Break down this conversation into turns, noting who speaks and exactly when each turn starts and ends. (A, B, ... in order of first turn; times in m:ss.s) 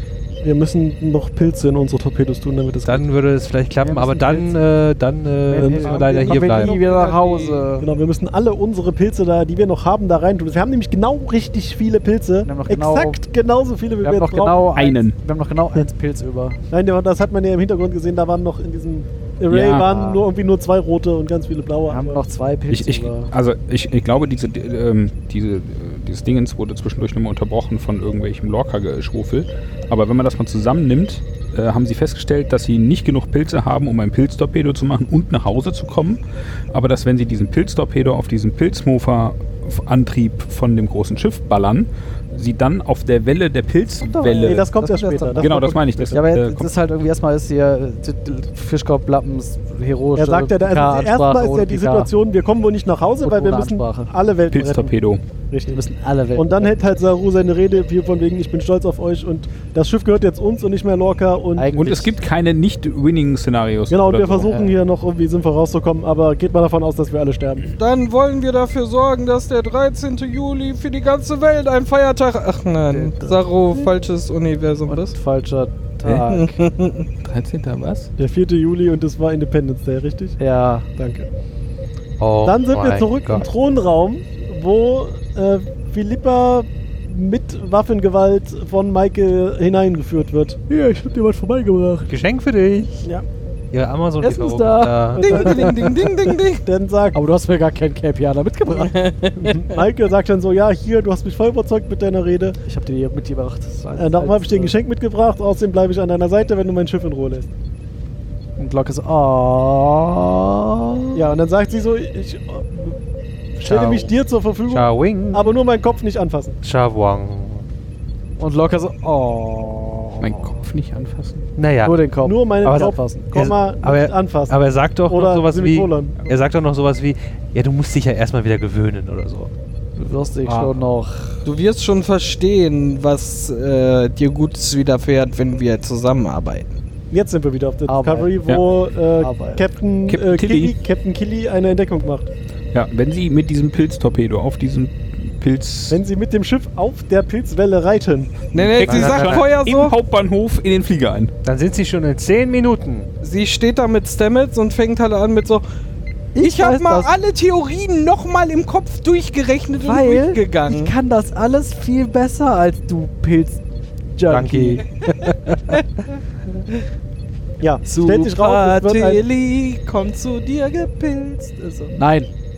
0:00.4-0:03.1 A
0:02.8-0:06.8 B
0:03.8-0:04.6 C
0:05.5-0:07.9 C
0:05.6-0:06.6 A
0:06.4-0:07.7 D
0:07.8-0:14.7 A
0:12.4-0:13.2 C
0:14.0-0:16.6 C
0:14.8-0:15.2 E
0:16.7-0:22.2 A
0:19.5-0:20.0 E
0:19.9-0:20.2 C
0:21.9-0:23.3 C
0:22.7-0:44.6 E
0:44.0-0:52.1 C
0:44.3-0:46.2 A
0:45.4-0:46.7 E
0:50.2-0:55.0 A
0:53.2-0:54.1 C
0:54.5-0:55.2 E
0:55.5-0:55.8 A
0:55.7-0:56.8 C
0:56.4-1:01.7 A
1:01.6-1:02.2 C
1:01.7-1:04.6 E
1:03.9-1:07.7 A
1:04.4-1:04.8 C
1:07.8-1:15.1 D
1:12.9-1:13.8 C
1:14.9-1:16.6 C
1:16.3-1:17.1 D
1:17.2-1:18.1 E
1:18.2-1:20.4 A
1:20.4-1:20.9 C
1:21.0-1:21.3 A
1:22.2-1:23.4 B
1:22.4-1:30.6 A
1:30.7-1:32.1 C
1:32.1-1:33.1 B
1:33.7-1:35.4 B
1:34.2-1:36.0 C
1:35.2-1:36.6 D
1:35.3-1:36.1 A
1:36.6-1:37.2 A
1:37.1-1:39.0 C
1:38.8-1:39.7 D
1:39.4-1:42.6 A
1:42.6-1:44.8 C
1:44.0-1:47.5 A
1:48.6-1:51.2 C
1:51.2-1:53.0 A
1:53.6-1:56.6 A
1:53.6-1:54.1 B
1:54.7-1:55.5 B
1:56.6-1:57.7 B
1:58.4-2:00.6 C
2:00.2-2:01.5 E
2:01.6-2:02.0 B
2:01.8-2:03.3 C
2:02.2-2:06.2 A
2:02.6-2:09.5 B
2:10.0-2:11.4 C
2:10.5-2:10.8 B
2:11.4-2:16.7 D
2:17.1-2:22.3 A
2:17.9-2:18.5 C
2:19.2-2:19.6 C
2:20.1-2:20.8 E
2:22.7-2:26.0 E
2:25.9-2:28.7 A
2:28.5-2:29.9 D
2:28.7-2:31.3 E
2:28.8-2:29.5 B
2:31.4-2:33.1 B
2:33.2-2:35.6 D
2:36.4-2:37.1 C
2:36.4-2:40.9 D
2:39.8-2:43.6 C
2:44.2-2:44.8 C
2:44.3-2:45.8 B
2:47.6-2:49.2 A
2:47.9-2:52.0 D
2:51.9-2:52.3 C